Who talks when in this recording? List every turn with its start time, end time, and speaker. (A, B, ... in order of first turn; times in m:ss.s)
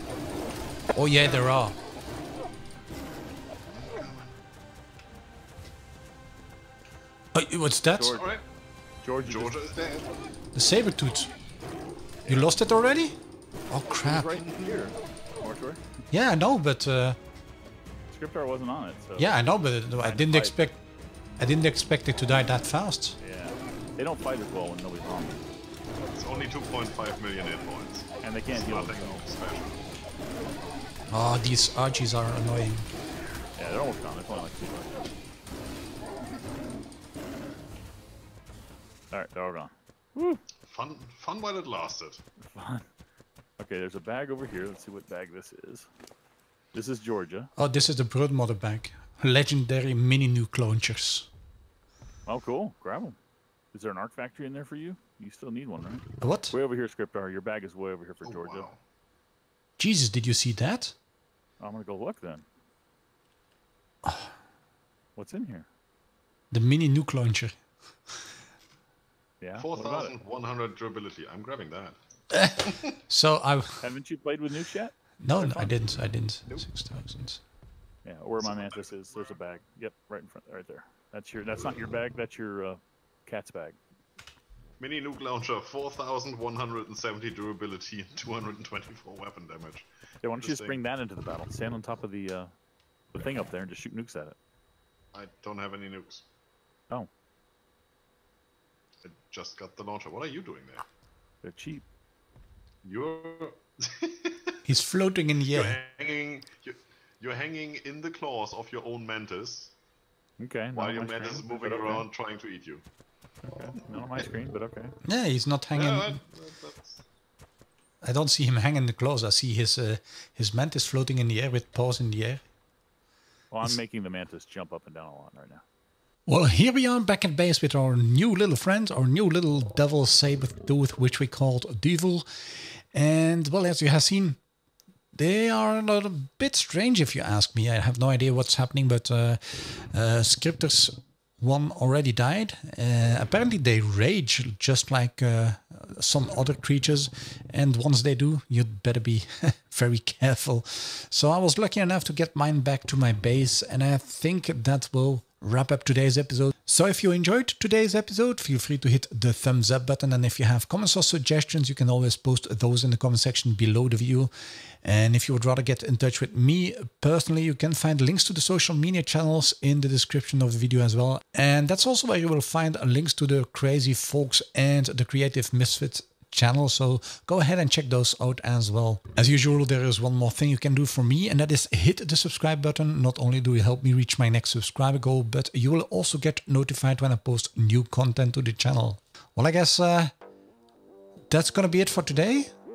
0:01.0-0:01.8 A
0:01.2-0:01.5 B
0:03.7-0:04.4 B
0:07.3-0:08.2 A
0:07.9-0:08.3 C
0:08.1-0:08.4 B
0:09.0-0:09.6 C
0:09.2-0:10.2 B
0:10.5-0:11.3 A
0:12.2-0:12.6 C
0:12.3-0:13.2 A
0:13.7-0:14.4 A
0:13.9-0:15.8 C
0:14.3-0:14.9 B
0:16.1-0:17.2 A
0:18.1-0:19.3 C
0:19.2-0:20.8 A
0:20.0-0:20.7 C
0:21.4-0:23.2 A
0:23.2-0:25.4 C
0:26.1-0:29.8 B
0:28.2-0:29.2 C
0:31.1-0:32.9 A
0:33.6-0:35.0 C
0:39.1-0:40.4 C
0:40.7-0:42.2 B
0:42.5-0:42.9 C
0:43.6-0:45.9 C
0:46.7-0:47.5 C
0:47.6-0:51.3 A
0:52.3-0:53.2 C
0:53.7-0:58.7 C
0:56.2-0:56.6 A
0:58.2-0:58.8 B
0:59.8-1:01.0 A
1:01.6-1:02.4 C
1:05.2-1:05.7 C
1:06.5-1:07.6 A
1:09.4-1:10.2 C
1:09.6-1:12.0 B
1:12.3-1:13.8 A
1:12.6-1:12.9 B
1:13.8-1:15.8 C
1:15.2-1:17.4 A
1:18.0-1:23.8 C
1:18.4-1:19.4 B
1:24.8-1:29.9 B
1:30.2-1:32.5 C
1:30.4-1:30.8 B
1:33.1-1:34.4 C
1:35.1-1:36.2 B
1:39.0-1:40.8 B
1:41.4-1:41.8 C
1:42.8-1:44.5 B
1:44.7-1:45.8 A
1:45.4-1:49.7 B
1:50.4-1:52.1 C
1:50.7-1:52.8 B
1:53.4-1:55.0 C
1:55.0-1:56.2 A
1:55.7-1:57.0 B
1:58.0-2:02.4 A
2:03.5-2:05.6 C
2:06.3-2:14.4 A
2:15.1-3:10.1 A
3:11.3-3:12.6 A